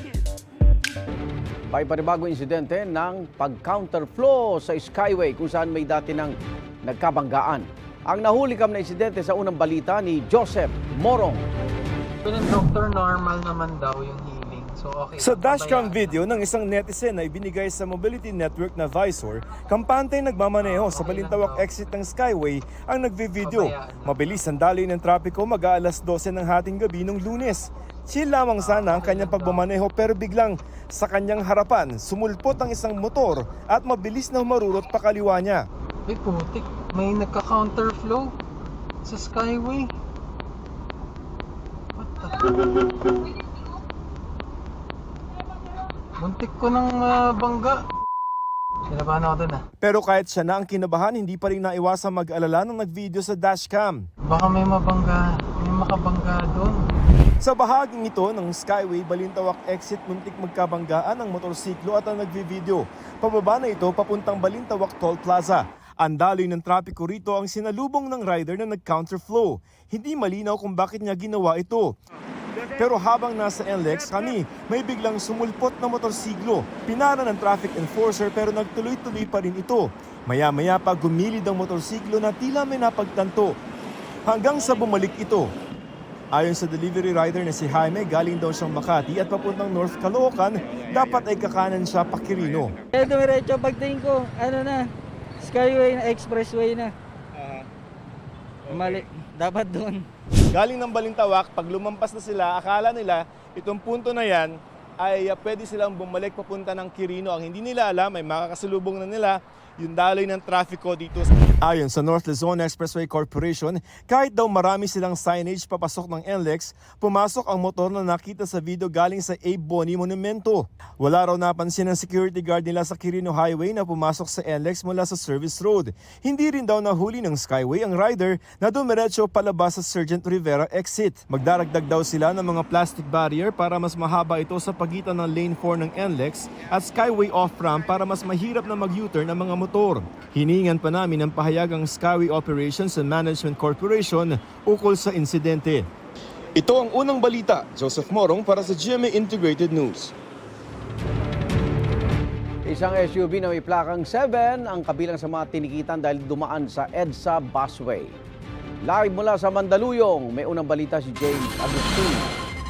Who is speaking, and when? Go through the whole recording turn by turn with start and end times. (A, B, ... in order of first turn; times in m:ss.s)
0:01.7-0:11.4 A
0:12.2-0:16.2 B
0:15.2-0:35.6 C
0:20.6-0:21.7 B
0:23.4-0:24.4 B
0:28.6-0:29.6 B
0:36.1-0:38.3 B
0:39.0-0:39.9 B
0:42.0-0:42.9 B
0:46.2-0:47.8 B
0:48.9-0:49.6 B
0:49.8-0:54.0 C
0:54.2-0:56.8 B
0:57.4-1:12.0 C
1:12.8-1:23.6 C
1:24.2-1:25.5 C
1:26.3-1:32.7 C
1:32.9-1:34.9 D
1:35.4-1:36.9 D
1:38.7-1:40.0 D
1:40.5-2:25.8 C
2:26.6-2:30.1 C
2:32.7-2:38.2 A
2:38.8-2:42.3 A